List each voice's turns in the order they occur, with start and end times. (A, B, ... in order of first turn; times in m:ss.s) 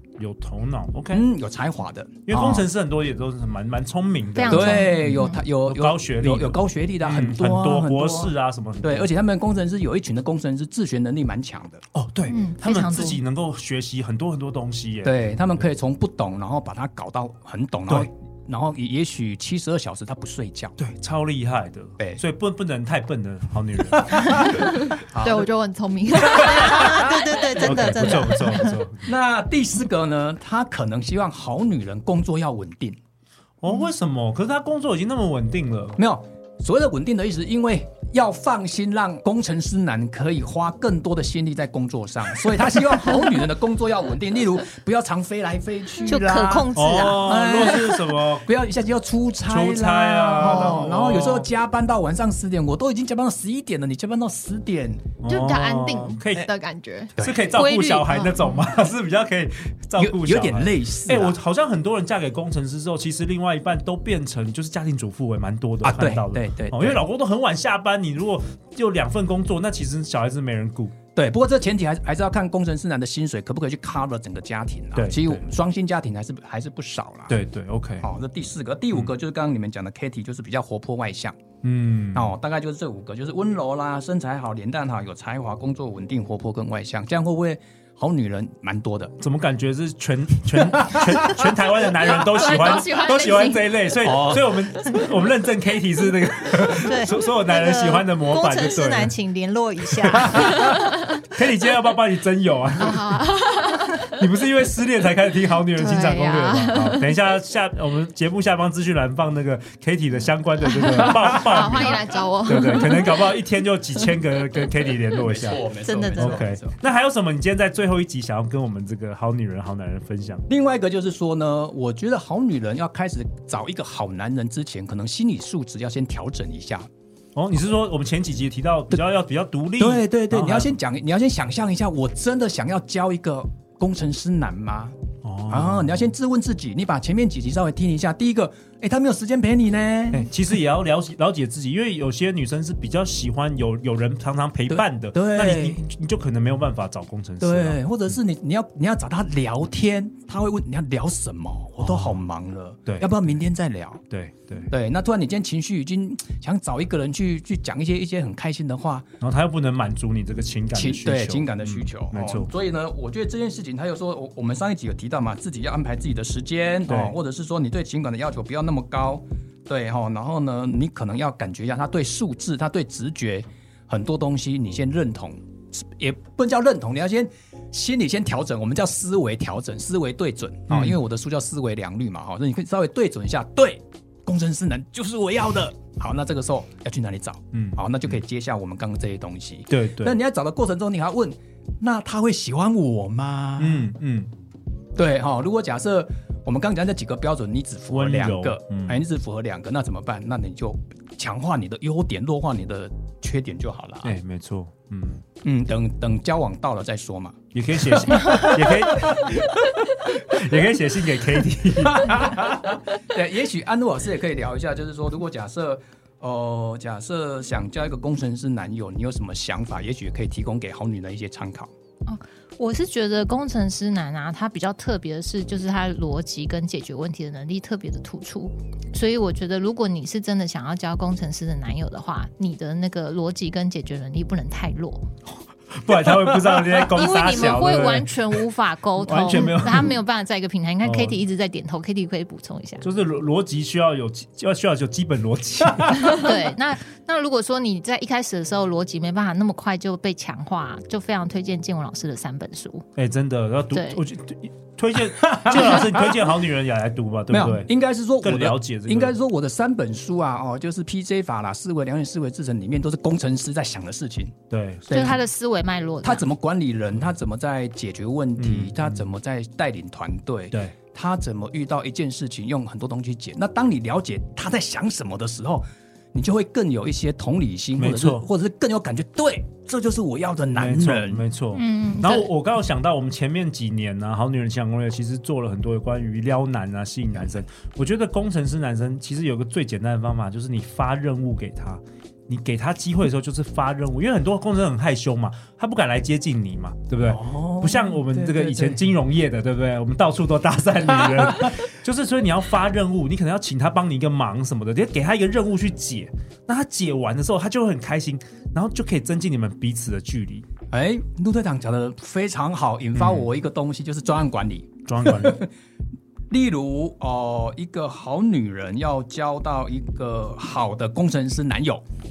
0:00.2-0:01.3 A
0:01.1-0:02.7 B
0:02.3-0:09.1 A
0:04.4-0:05.4 C
0:04.5-0:11.8 B
0:11.9-0:15.4 A
0:12.3-0:13.2 C
0:15.0-0:20.8 B
0:20.8-0:24.6 A
0:24.0-0:25.5 B
0:24.5-0:27.1 D
0:26.2-0:28.8 C
0:26.5-0:27.1 B
0:27.6-0:29.1 A
0:29.0-0:33.0 B
0:33.6-0:36.0 A
0:36.0-0:55.1 B
0:46.1-0:47.5 C
0:46.7-0:48.5 A
0:49.5-0:51.5 A
0:55.2-0:56.5 A
0:55.3-0:57.1 D
0:57.2-0:57.5 B
0:57.2-1:11.0 A
0:57.5-0:58.3 C
0:58.1-0:58.4 D
1:00.0-1:01.4 B
1:05.8-1:07.0 B
1:11.2-1:17.4 B
1:15.0-1:15.4 A
1:17.3-1:18.1 A
1:18.0-1:21.4 B
1:21.6-1:22.3 A
1:22.1-1:29.2 B
1:29.2-1:39.1 A
1:30.8-1:31.4 B
1:31.9-1:33.9 D
1:34.0-1:34.6 B
1:36.8-1:40.8 C
1:40.0-1:43.2 A
1:42.8-1:44.1 D
1:44.1-1:55.6 A
1:45.8-1:47.1 D
1:50.8-1:53.4 D
1:55.2-1:56.8 B
1:55.8-1:56.4 C
1:56.2-2:00.5 A
2:00.5-2:06.9 B
2:07.4-2:10.8 A
2:09.8-2:15.0 B
2:15.2-2:16.1 A
2:15.5-2:20.3 B
2:20.1-2:27.8 A
2:24.7-2:25.8 B
2:27.4-2:34.0 B
2:31.8-2:32.2 A
2:32.9-2:33.3 A
2:34.1-2:34.7 A
2:34.7-2:39.1 B
2:39.2-2:42.5 A
2:40.7-3:13.9 B
2:46.9-2:47.2 A
3:00.7-3:01.0 A
3:07.5-3:07.8 A
3:09.7-3:10.2 A
3:13.6-3:14.3 A
3:15.0-3:24.2 B
3:17.9-3:19.0 A
3:24.0-3:25.3 A
3:25.4-3:29.6 B
3:27.5-3:32.3 A
3:31.8-3:41.7 B
3:42.1-3:55.1 C
3:55.8-3:58.4 A
3:56.9-4:02.8 C
3:59.0-4:00.0 A
4:00.8-4:01.2 A
4:02.8-4:06.4 A
4:06.1-4:12.8 C
4:13.0-4:17.7 A
4:13.7-4:14.0 C
4:15.2-4:16.2 B
4:17.3-4:24.4 B
4:18.2-4:19.2 A
4:24.5-4:25.1 A
4:24.9-4:25.2 B
4:24.9-4:26.2 C
4:26.0-4:41.3 B
4:28.4-4:29.0 A
4:37.8-4:38.2 A
4:40.6-5:10.5 A
4:41.5-4:42.3 C
4:57.0-4:58.8 B
5:10.7-5:15.5 B
5:13.0-5:13.3 A
5:14.9-5:15.5 A
5:16.3-5:21.8 B